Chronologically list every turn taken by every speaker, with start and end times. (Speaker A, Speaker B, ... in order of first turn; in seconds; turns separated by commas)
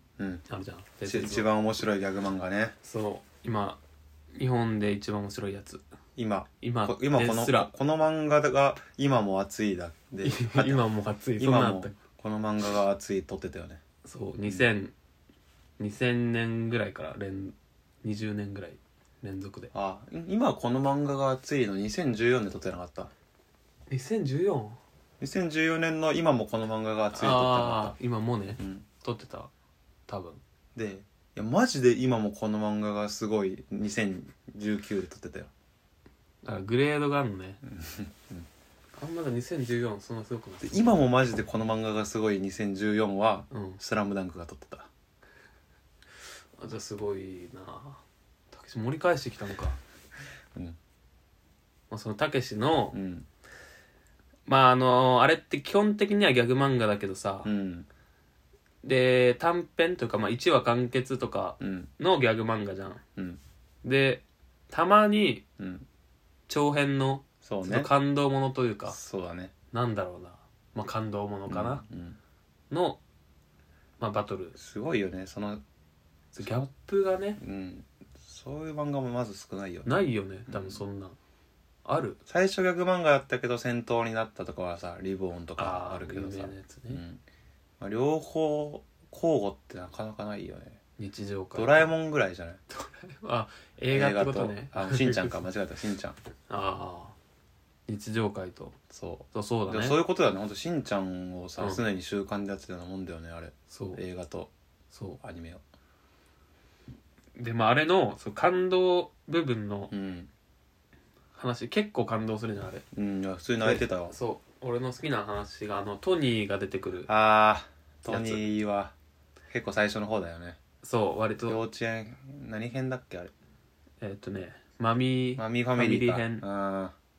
Speaker A: 0.2-0.5, Speaker B: 0.5-1.5, Speaker A: 1.1-2.8, Speaker B: 2.8-3.8, Speaker B: 4.3-5.8, Speaker A: 6.2-10.9, Speaker B: 6.6-7.7, Speaker B: 10.2-12.0, Speaker A: 11.4-13.8, Speaker B: 14.1-14.9, Speaker A: 14.4-14.7, Speaker B: 15.8-19.7, Speaker A: 19.7-23.1, Speaker B: 23.9-24.8, Speaker A: 25.2-28.0, Speaker B: 27.1-29.5, Speaker A: 28.6-28.9, Speaker B: 30.1-30.4, Speaker A: 30.8-35.5, Speaker B: 36.4-37.6, Speaker A: 37.6-38.5, Speaker B: 39.0-41.0, Speaker A: 40.6-44.9, Speaker B: 43.5-43.8, Speaker B: 46.6-49.8, Speaker B: 51.9-53.0, Speaker A: 52.9-53.3, Speaker B: 54.5-57.5, Speaker A: 57.5-57.9, Speaker B: 58.8-63.0, Speaker A: 61.6-61.9, Speaker A: 63.2-63.4, Speaker B: 63.8-65.5, Speaker A: 65.6-65.9, Speaker B: 66.5-69.0, Speaker A: 67.4-67.9, Speaker A: 68.9-69.5, Speaker B: 69.7-71.8, Speaker A: 71.5-72.2, Speaker B: 72.7-73.0, Speaker B: 74.0-74.6, Speaker A: 74.6-75.6, Speaker B: 76.3-77.4, Speaker A: 77.4-80.8, Speaker B: 79.9-81.2, Speaker B: 81.8-82.2, Speaker A: 82.3-87.2, Speaker B: 85.6-87.0, Speaker A: 87.8-90.8, Speaker B: 91.0-91.9, Speaker A: 91.5-92.6, Speaker B: 92.7-95.3, Speaker A: 93.9-96.2, Speaker B: 96.5-97.2, Speaker B: 97.9-98.8, Speaker A: 98.9-104.5, Speaker B: 99.3-100.0, Speaker B: 103.7-104.0, Speaker B: 104.9-105.2, Speaker A: 105.2-105.6, Speaker B: 107.4-109.9, Speaker A: 109.9-110.3, Speaker B: 111.3-112.8, Speaker A: 112.9-114.1, Speaker B: 113.6-117.1, Speaker A: 117.1-118.9, Speaker B: 118.1-118.4, Speaker A: 119.5-120.6, Speaker B: 120.8-121.6, Speaker A: 121.5-123.3, Speaker B: 124.0-126.5, Speaker A: 125.4-127.0